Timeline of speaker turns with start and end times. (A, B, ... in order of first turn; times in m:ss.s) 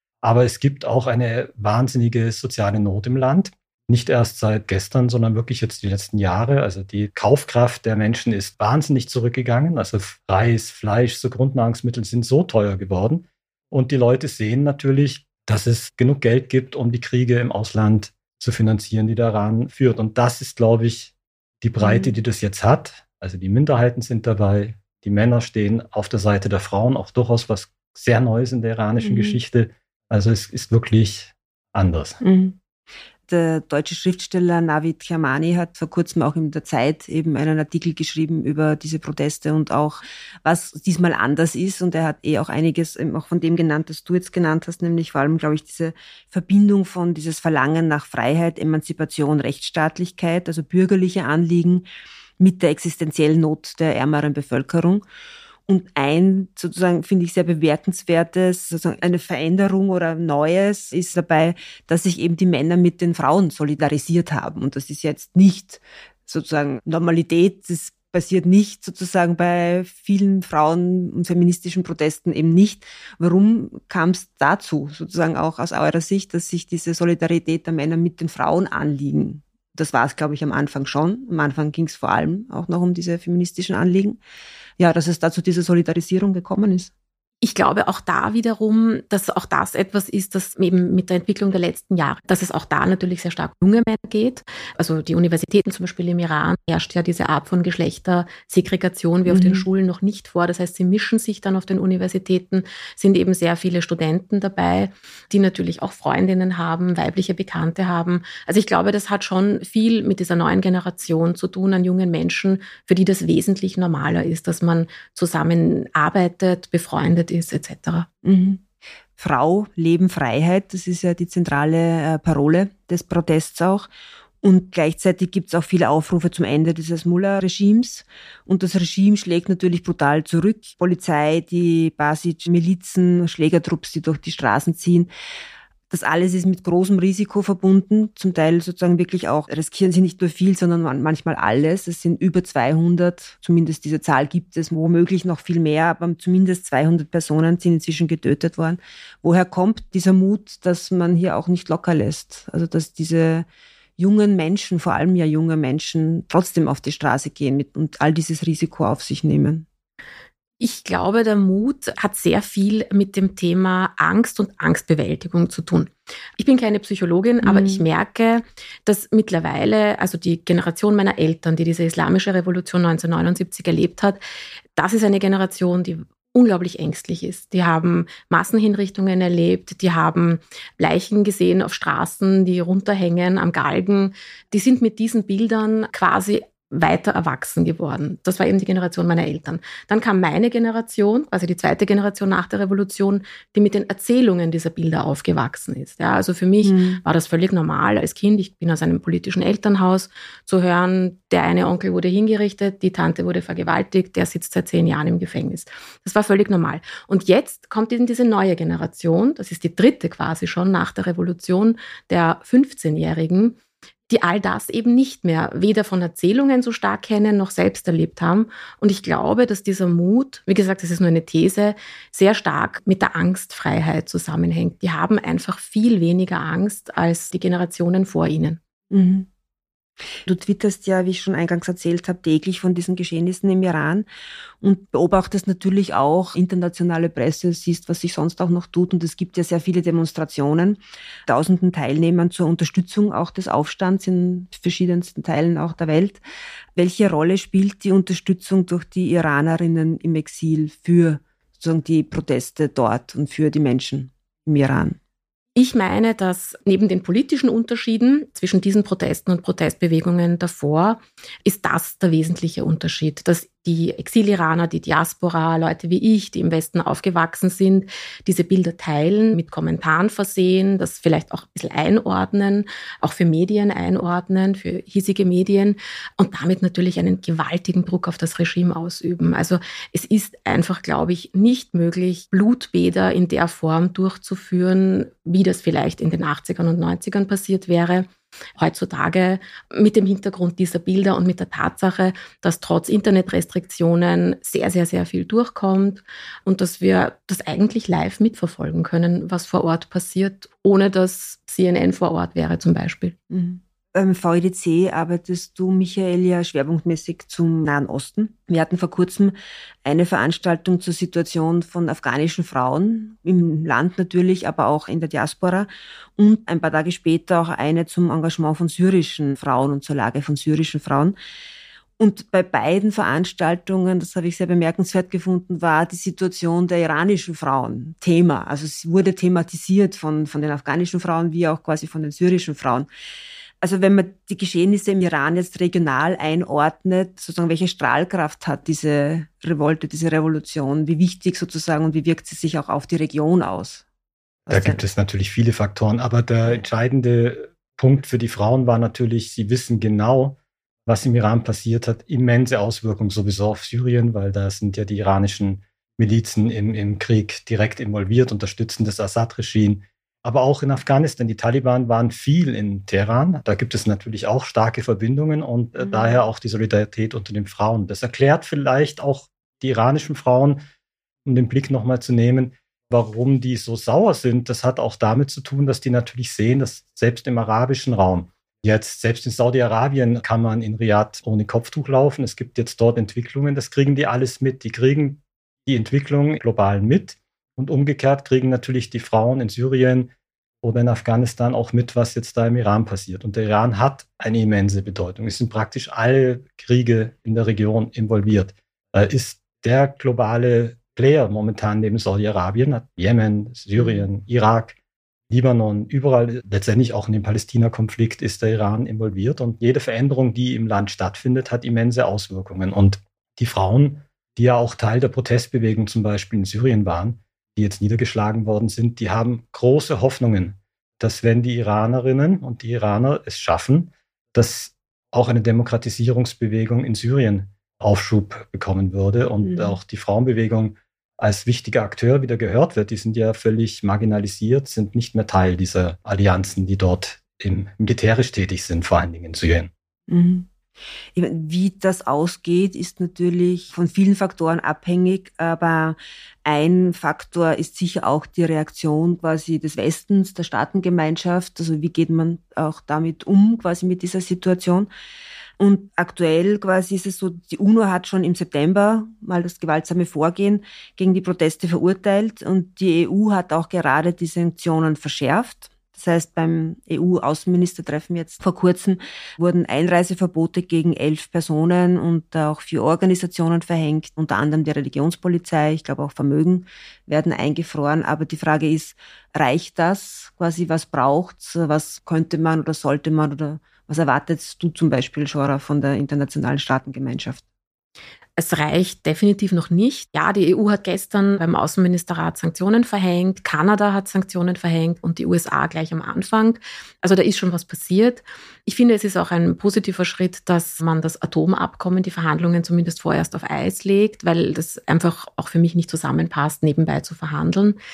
0:00.2-0:32.2 A
0:21.8-0:22.1 B
0:29.0-0:29.4 B
0:32.2-0:32.6 B
0:33.3-0:51.9 B
0:52.4-0:55.0 B
0:55.7-1:24.2 B
1:24.8-1:26.9 B
1:27.4-1:58.1 C
1:39.3-1:39.6 B
1:58.2-1:58.6 B
1:59.2-2:03.9 B
2:04.4-2:15.1 B
2:15.9-2:33.5 B
2:34.0-2:39.6 B
2:40.6-2:54.2 C
2:47.4-2:47.8 B
2:54.8-3:33.6 C
3:16.6-3:17.0 B
3:34.1-3:48.6 C
3:48.9-3:49.3 B
3:50.2-3:54.1 B
3:54.6-4:06.2 B
4:06.8-4:15.0 B
4:15.5-5:03.1 C
5:03.3-5:21.1 B
5:22.0-5:32.9 B
5:33.6-5:43.8 B
5:44.5-5:44.8 B
5:44.5-6:10.6 A
6:05.8-6:06.1 B
6:11.2-6:30.1 A
6:30.6-6:44.8 A
6:43.8-6:44.1 B
6:45.3-7:19.7 A
7:09.4-7:09.8 B
7:20.1-7:20.5 B
7:21.1-7:34.9 B
7:35.6-8:07.4 B
8:08.4-8:27.8 C